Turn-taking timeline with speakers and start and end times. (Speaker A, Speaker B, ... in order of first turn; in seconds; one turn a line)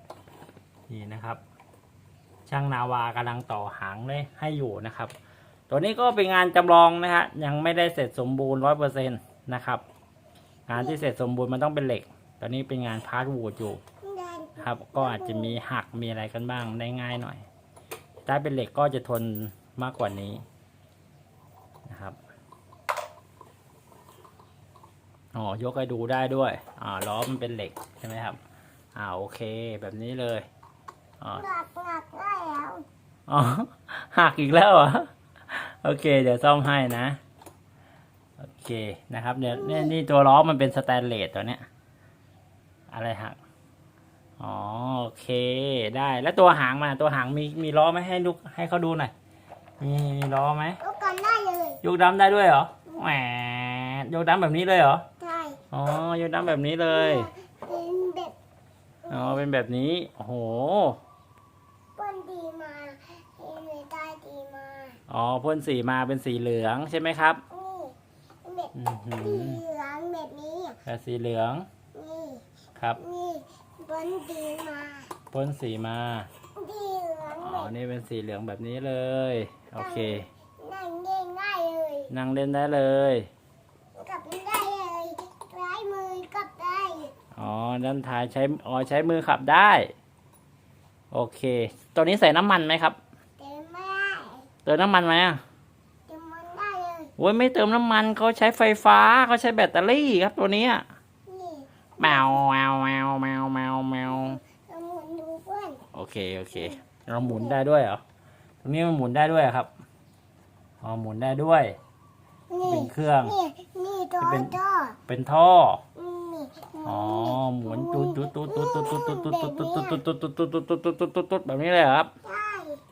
Speaker A: 0.9-1.4
Speaker A: 2.5-5.1
Speaker A: 5.7-9.8
Speaker A: 10.7-13.8
Speaker B: 14.0-15.6
Speaker A: 14.6-17.4
Speaker A: 18.2-20.4
Speaker A: 21.9-22.1
Speaker A: 25.3-28.4
Speaker A: 28.9-30.5
Speaker B: 31.3-32.8
Speaker A: 33.3-37.2
Speaker A: 38.4-41.6
Speaker B: 39.5-39.9
Speaker A: 42.9-43.4
Speaker A: 44.4-49.1
Speaker A: 49.8-50.8
Speaker B: 50.8-51.8
Speaker A: 51.8-55.0
Speaker B: 55.2-55.6
Speaker A: 55.7-57.3
Speaker B: 56.9-58.3
Speaker B: 59.1-59.4
Speaker A: 59.1-61.0
Speaker B: 62.0-65.0
Speaker A: 65.1-67.4
Speaker B: 67.5-70.8
Speaker A: 68.7-69.6
Speaker A: 70.8-71.7
Speaker B: 71.9-72.4
Speaker B: 73.0-75.1
Speaker A: 75.3-76.3
Speaker B: 76.5-77.7
Speaker A: 77.3-80.3
Speaker B: 79.8-82.1
Speaker A: 82.1-83.3
Speaker B: 83.9-87.1
Speaker A: 87.3-89.9
Speaker A: 91.1-93.0
Speaker B: 93.4-94.5
Speaker A: 94.6-95.4
Speaker B: 96.1-97.1
Speaker A: 97.2-100.8
Speaker B: 101.3-102.4
Speaker A: 102.0-104.4
Speaker B: 104.3-105.8
Speaker A: 105.9-108.0
Speaker B: 106.5-107.6
Speaker A: 108.6-109.7
Speaker A: 110.8-111.8
Speaker B: 112.5-115.0
Speaker A: 112.6-113.3
Speaker A: 114.2-115.8
Speaker B: 116.0-120.0
Speaker A: 116.8-122.1
Speaker B: 122.2-122.8